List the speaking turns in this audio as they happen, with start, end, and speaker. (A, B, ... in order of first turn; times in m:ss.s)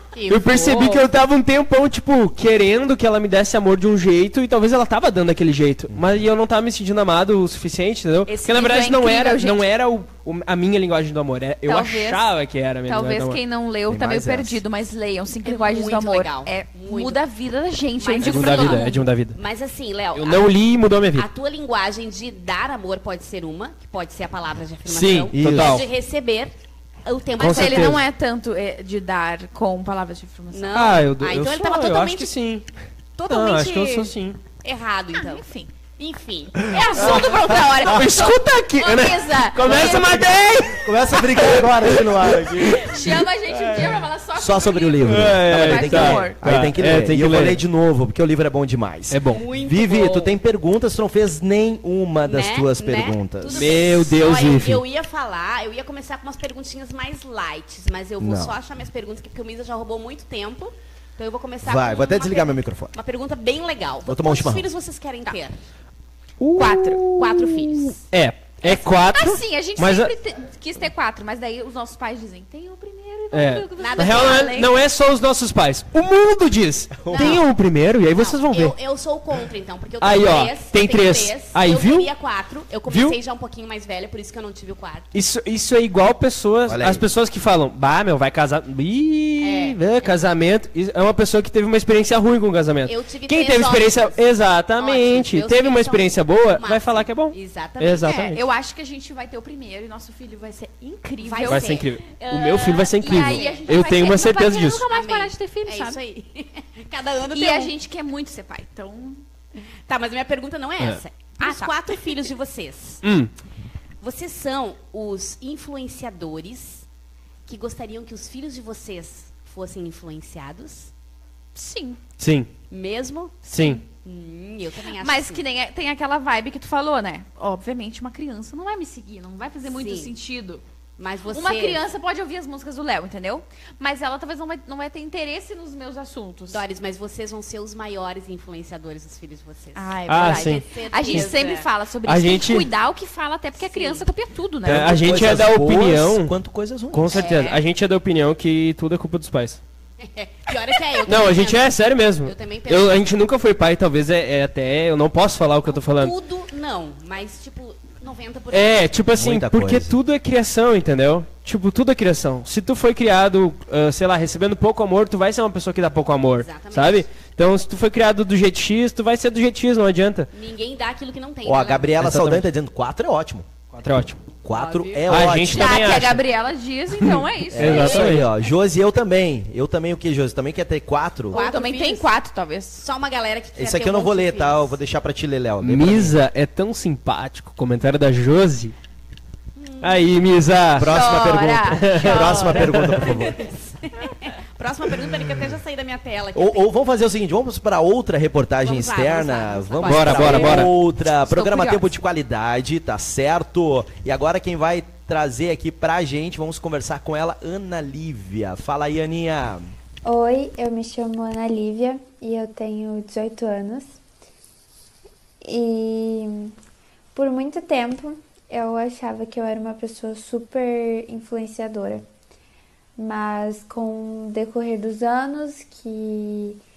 0:00.1-0:01.1 A
0:00.3-0:13.4 B
0:05.9-0:06.2 C
0:08.3-0:09.6 D
0:11.7-0:12.3 D
0:12.9-0:19.0 D
0:13.9-0:14.6 C
0:15.4-0:17.2 A
0:18.0-0:20.5 A
0:18.2-0:19.4 B
0:20.1-0:21.3 B
0:21.2-0:28.0 A
0:24.9-0:25.9 B
0:25.3-0:25.8 C
0:27.4-0:28.0 B
0:27.4-0:30.9 D
0:30.5-0:32.3 A
0:30.8-0:32.7 B
0:33.2-0:36.9 A
0:33.3-0:34.4 B
0:35.1-0:35.8 D
0:36.6-0:40.4 D
0:37.0-0:44.0 B
0:37.0-0:37.3 C
0:40.7-0:43.1 C
0:42.6-0:46.4 D
0:44.4-0:53.6 C
0:45.0-0:47.6 B
0:49.1-0:49.4 B
0:49.3-0:50.4 A
0:52.3-1:05.6 A
0:53.5-0:54.8 B
0:58.2-0:58.5 C
1:01.6-1:02.9 C
1:04.1-1:04.7 C
1:06.4-1:10.1 B
1:06.6-1:07.1 D
1:07.2-1:08.0 A
1:08.6-1:14.8 D
1:13.3-1:18.8 B
1:13.8-1:14.6 A
1:17.0-1:17.4 C
1:17.1-1:17.5 A
1:18.2-1:25.1 A
1:20.0-1:22.1 B
1:22.9-1:23.2 B
1:25.1-1:38.4 B
1:26.7-1:27.0 C
1:29.4-1:29.8 A
1:32.8-1:34.2 A
1:34.8-1:38.3 A
1:38.0-1:46.0 D
1:41.2-1:44.2 A
1:41.5-1:44.9 B
1:44.9-1:47.7 A
1:47.3-1:49.2 D
1:49.9-1:53.0 A
1:51.4-1:51.7 D
1:53.0-1:53.3 B
1:54.0-1:56.8 A
1:57.5-2:00.9 A
2:01.6-2:02.0 D
2:02.2-2:02.5 B
2:02.7-2:05.4 A
2:03.5-2:03.8 B
2:05.0-2:10.6 D
2:09.6-2:10.1 A
2:11.0-2:11.8 A
2:11.3-2:16.6 D
2:16.5-2:21.7 A
2:19.8-2:25.1 D
2:20.1-2:21.3 B
2:22.0-2:22.7 B
2:23.6-2:24.1 A
2:24.6-2:27.2 C
2:24.7-2:26.4 B
2:26.9-2:29.6 B
2:27.2-2:27.6 D
2:30.0-2:33.0 A
2:31.0-2:36.2 B
2:35.7-2:39.0 A
2:38.5-2:50.3 B
2:39.2-2:39.9 C
2:46.4-2:47.1 A
2:50.3-2:51.9 A
2:51.4-2:53.5 C
2:52.0-2:52.5 B
2:53.7-2:54.2 B
2:54.4-2:56.0 C
2:54.5-2:55.4 A
2:55.1-2:56.2 B
2:55.5-2:58.2 D
2:57.0-2:58.3 B
2:57.5-3:01.4 C
2:57.7-2:58.2 A
3:01.3-3:02.8 D
3:01.3-3:02.1 A
3:02.8-3:04.8 A
3:03.6-3:06.2 C
3:05.6-3:08.8 B
3:09.6-3:10.2 A
3:09.8-3:10.9 B
3:10.8-3:13.4 C
3:10.8-3:12.7 D
3:11.7-3:13.2 B
3:12.0-3:16.7 A
3:16.4-3:29.7 C
3:18.6-3:20.7 A
3:19.8-3:20.7 B
3:21.2-3:21.9 D
3:30.0-3:34.0 E
3:35.4-3:36.5 E
3:37.1-3:42.1 E
3:43.0-3:46.6 E